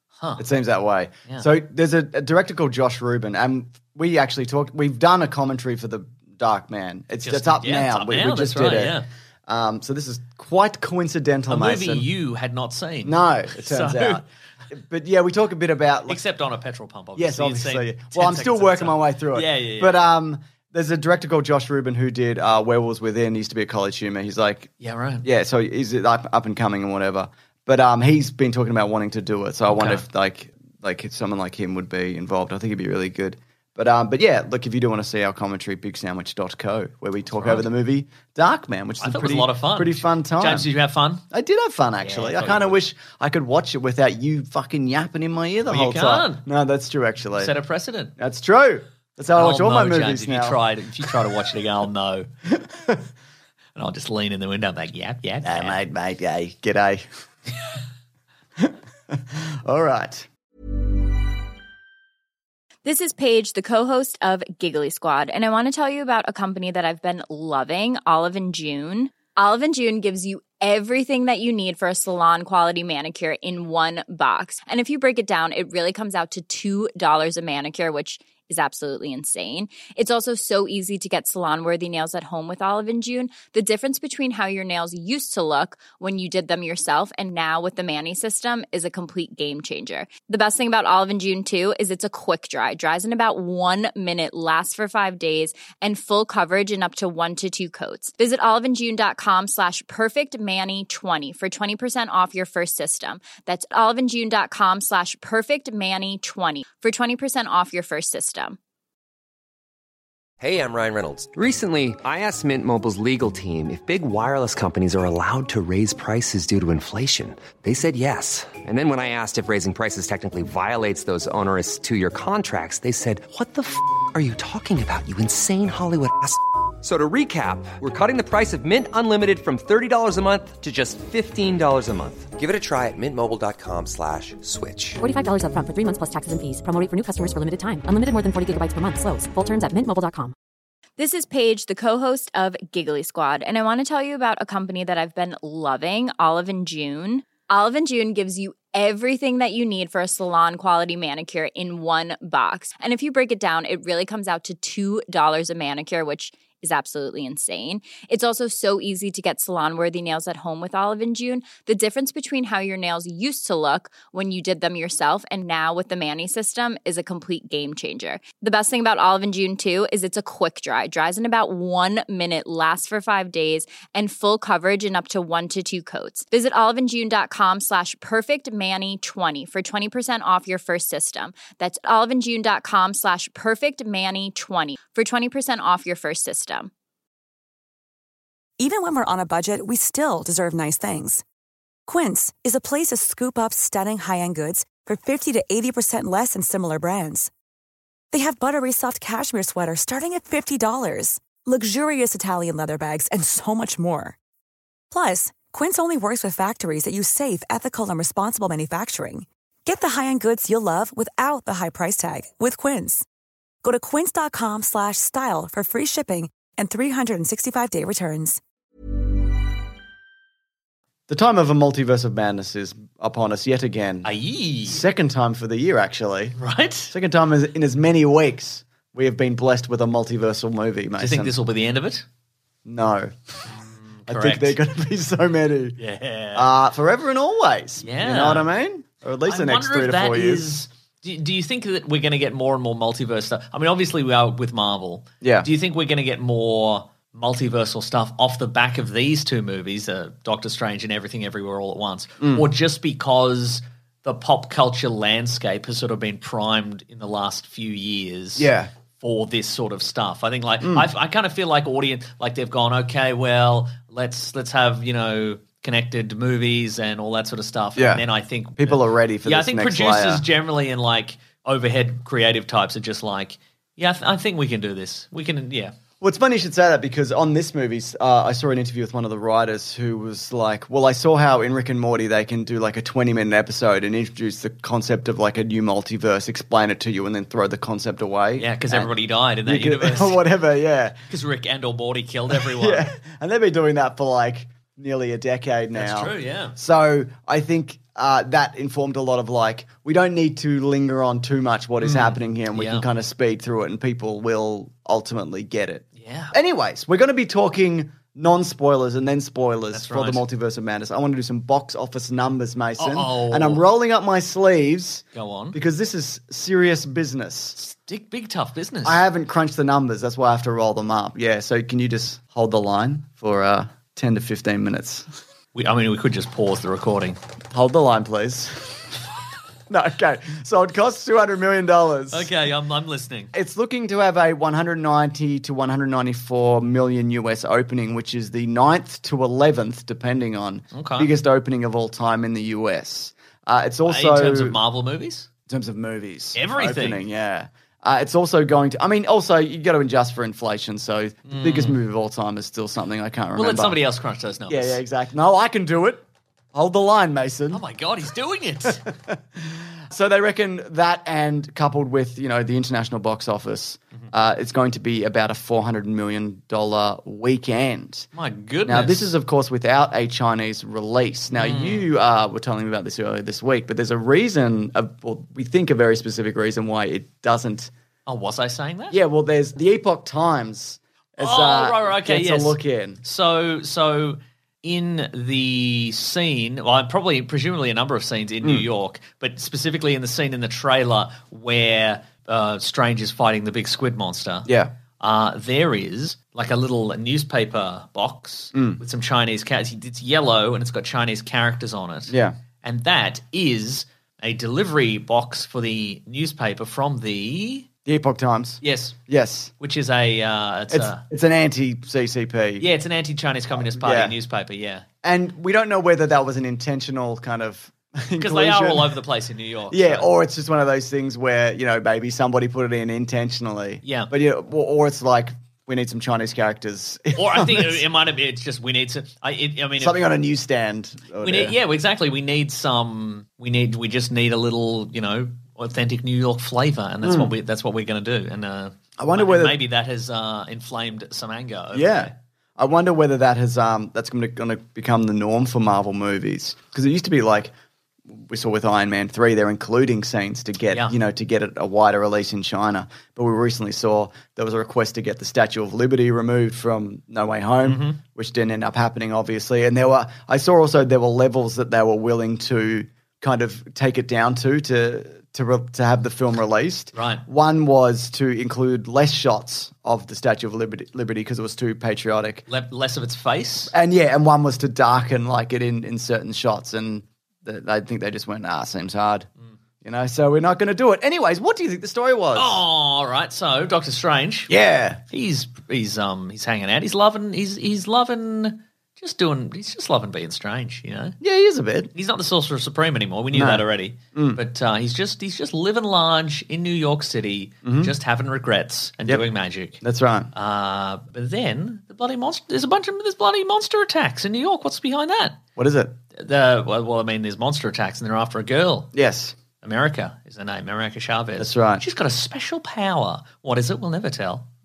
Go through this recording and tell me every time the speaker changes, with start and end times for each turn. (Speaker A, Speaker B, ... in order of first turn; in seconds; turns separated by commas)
Speaker A: 0.4-12.1, Speaker B: 7.2-9.1, Speaker B: 11.5-14.2, Speaker A: 13.0-16.2, Speaker B: 16.1-20.0, Speaker A: 17.2-24.7, Speaker B: 24.8-25.3, Speaker A: 25.2-40.7, Speaker B: 29.7-30.0, Speaker B: 37.4-37.7, Speaker B: 39.0-41.2, Speaker A: 41.3-47.5, Speaker B: 42.0-42.8, Speaker B: 45.7-46.5, Speaker B: 47.3-48.1, Speaker A: 48.2-50.6, Speaker B: 49.4-52.3, Speaker A: 52.5-53.0, Speaker B: 53.8-55.8, Speaker A: 55.4-57.1, Speaker A: 58.6-60.3, Speaker C: 62.9-108.6, Speaker D: 110.4-135.0, Speaker E: 135.0-140.3, Speaker C: 141.0-186.7, Speaker F: 188.6-191.2, Speaker F: 191.9-197.3, Speaker F: 198.1-204.2, Speaker F: 204.9-213.1, Speaker F: 213.6-218.4, Speaker A: 221.1-224.1, Speaker B: 224.1-224.8, Speaker A: 224.7-226.4, Speaker B: 226.4-226.9, Speaker A: 226.9-231.3, Speaker B: 231.0-232.1, Speaker A: 232.7-233.1, Speaker B: 233.9-234.6, Speaker A: 234.1-235.8, Speaker B: 235.8-236.5, Speaker A: 236.3-240.5, Speaker B: 237.8-238.5, Speaker B: 239.3-275.8, Speaker A: 245.2-245.5, Speaker A: 252.2-252.5, Speaker A: 258.4-258.7, Speaker A: 260.6-260.9, Speaker A: 267.8-268.1, Speaker A: 268.6-270.2, Speaker A: 276.0-288.9, Speaker B: 288.4-290.2, Speaker A: 289.5-291.0, Speaker B: 291.1-292.9, Speaker A: 292.3-317.6, Speaker B: 295.8-296.6, Speaker B: 301.8-302.9, Speaker B: 306.0-306.3, Speaker B: 309.7-310.2, Speaker B: 312.8-313.6, Speaker B: 315.1-315.6, Speaker B: 317.6-319.0, Speaker A: 318.8-325.1, Speaker B: 325.6-327.2, Speaker A: 327.5-328.9, Speaker A: 329.7-332.3, Speaker B: 332.1-333.3, Speaker A: 333.3-344.6, Speaker B: 340.7-341.1, Speaker B: 343.9-345.3, Speaker A: 345.5-353.8, Speaker B: 346.4-347.1, Speaker B: 351.3-351.8, Speaker B: 353.4-354.8, Speaker A: 354.5-357.6, Speaker B: 357.5-358.9, Speaker A: 358.6-368.1, Speaker B: 368.1-369.1, Speaker A: 368.7-377.7, Speaker B: 371.3-371.9, Speaker B: 378.1-379.0, Speaker A: 378.9-383.0, Speaker B: 381.2-394.5, Speaker A: 394.5-394.7, Speaker B: 395.0-407.7, Speaker A: 398.6-398.8, Speaker A: 402.1-402.4, Speaker A: 407.9-409.5, Speaker B: 408.6-409.0, Speaker B: 409.6-411.0, Speaker A: 410.7-412.7, Speaker B: 412.6-414.9, Speaker A: 413.6-414.2, Speaker A: 415.0-418.9, Speaker B: 418.2-420.1, Speaker A: 419.7-427.8, Speaker B: 423.8-424.1, Speaker B: 427.1-430.1, Speaker A: 429.8-431.6, Speaker B: 431.2-442.1, Speaker A: 437.0-437.3, Speaker A: 439.0-439.6, Speaker A: 441.7-447.5, Speaker A: 448.1-472.5, Speaker B: 457.6-458.0, Speaker B: 466.9-467.2, Speaker B: 472.5-473.7, Speaker A: 473.7-479.3, Speaker A: 479.8-482.6, Speaker B: 482.4-484.5, Speaker A: 484.5-485.0, Speaker B: 485.1-491.2, Speaker A: 491.2-491.9, Speaker B: 491.9-499.8, Speaker A: 493.3-493.6, Speaker A: 494.1-494.4, Speaker A: 497.6-497.9, Speaker A: 499.8-500.3, Speaker B: 500.3-505.4, Speaker A: 505.6-506.0, Speaker B: 506.2-508.9, Speaker A: 508.9-509.4, Speaker B: 509.6-514.5, Speaker A: 511.4-511.8